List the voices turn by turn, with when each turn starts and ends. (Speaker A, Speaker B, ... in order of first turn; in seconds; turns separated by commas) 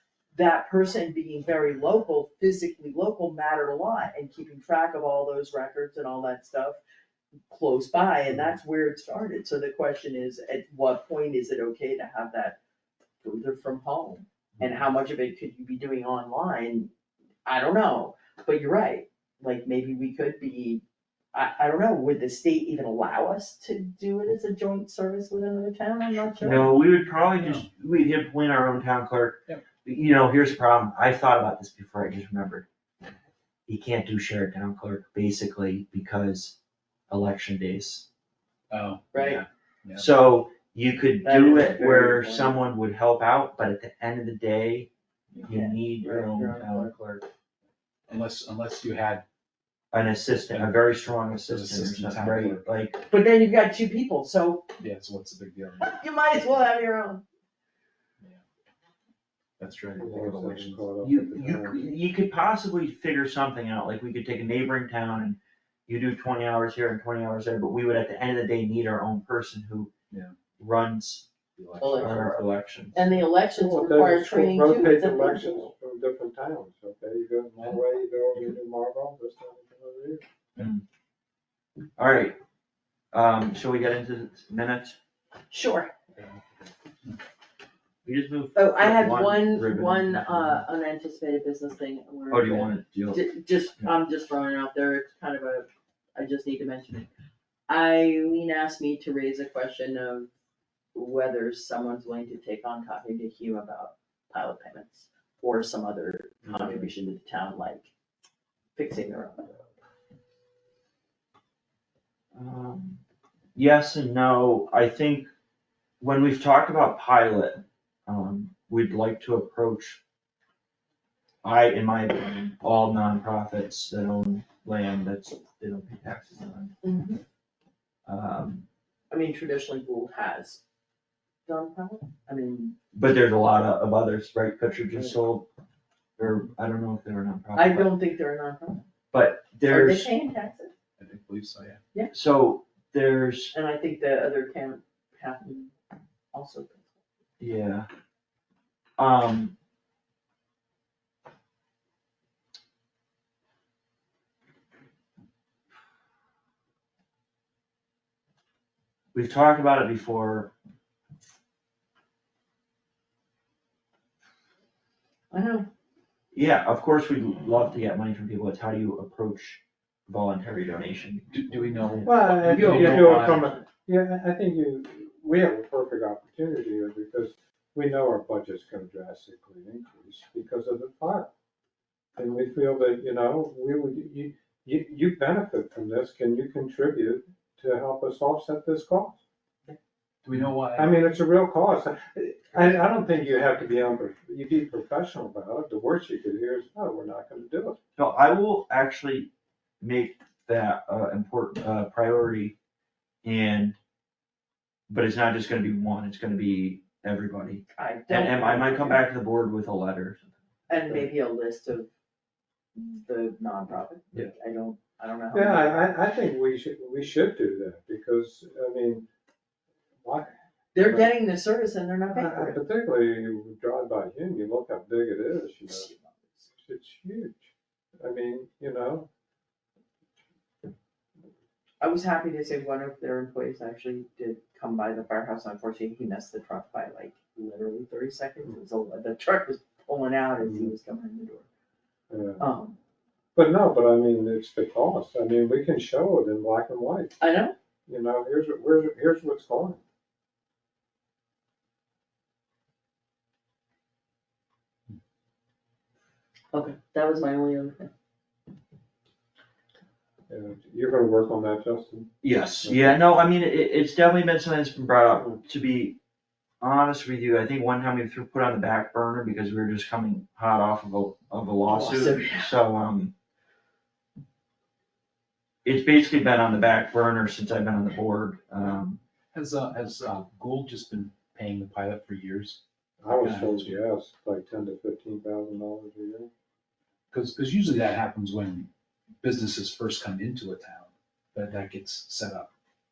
Speaker A: 0.3-6.8, Speaker A: 7.5-12.6, Speaker A: 13.2-16.9, Speaker A: 17.5-20.8, Speaker A: 21.3-26.7, Speaker B: 26.3-26.7, Speaker C: 26.4-32.6, Speaker B: 27.4-27.7, Speaker C: 33.7-36.6, Speaker C: 37.1-38.1, Speaker B: 38.7-40.1, Speaker A: 39.1-39.4, Speaker C: 40.0-44.9, Speaker A: 41.2-42.6, Speaker A: 45.4-45.8, Speaker C: 45.4-47.0, Speaker D: 46.0-47.1, Speaker B: 48.1-49.2, Speaker C: 49.9-53.0, Speaker B: 50.5-52.6, Speaker A: 53.0-54.7, Speaker B: 54.8-56.1, Speaker A: 55.8-57.2, Speaker B: 59.6-60.8, Speaker D: 60.0-61.9, Speaker C: 61.0-69.9, Speaker C: 70.6-71.3, Speaker B: 71.6-72.2, Speaker A: 71.8-75.7, Speaker C: 72.0-73.0, Speaker D: 73.5-80.2, Speaker C: 80.6-80.8, Speaker C: 82.0-82.4, Speaker C: 83.1-85.0, Speaker A: 85.5-85.9, Speaker B: 86.2-86.7, Speaker C: 88.0-90.6, Speaker A: 88.5-97.1, Speaker C: 92.3-93.3, Speaker A: 97.7-100.3, Speaker A: 100.9-107.9, Speaker A: 108.8-109.6, Speaker C: 112.3-113.0, Speaker C: 113.6-115.3, Speaker C: 116.0-120.0, Speaker C: 121.4-126.7, Speaker A: 126.8-127.2, Speaker C: 128.1-128.7, Speaker A: 129.1-130.6, Speaker A: 131.5-132.8, Speaker C: 132.9-135.5, Speaker C: 136.2-137.9, Speaker A: 137.6-138.8, Speaker C: 139.1-140.1, Speaker A: 139.7-140.7, Speaker B: 141.0-141.8, Speaker C: 142.1-143.6, Speaker A: 143.5-145.7, Speaker A: 146.3-146.9, Speaker C: 147.4-147.9, Speaker C: 149.0-149.6, Speaker C: 159.1-160.5, Speaker A: 165.3-165.7, Speaker C: 166.3-171.2, Speaker B: 171.3-173.5, Speaker D: 172.1-181.3, Speaker A: 172.3-173.7, Speaker D: 182.2-189.2, Speaker B: 190.2-191.0, Speaker D: 190.8-197.8, Speaker C: 198.0-199.3, Speaker C: 199.8-202.6, Speaker C: 203.2-203.8, Speaker C: 204.9-211.1, Speaker A: 207.8-209.1, Speaker A: 210.7-211.9, Speaker A: 212.8-215.8, Speaker D: 215.3-219.1, Speaker D: 220.0-221.2, Speaker A: 220.7-222.6, Speaker D: 222.1-225.9, Speaker A: 225.7-226.5, Speaker D: 226.5-229.1, Speaker A: 231.8-241.5, Speaker D: 240.4-240.7, Speaker D: 242.1-242.4, Speaker A: 242.4-242.8, Speaker D: 243.3-247.2, Speaker A: 247.2-247.6, Speaker D: 247.9-249.8, Speaker A: 256.5-257.9, Speaker D: 260.3-262.1, Speaker C: 262.2-266.0, Speaker D: 262.6-263.0, Speaker C: 266.6-273.1, Speaker A: 271.7-272.5, Speaker C: 275.6-279.0, Speaker B: 279.3-282.6, Speaker D: 283.0-286.3, Speaker B: 283.2-283.8, Speaker B: 287.1-288.7, Speaker B: 289.2-292.5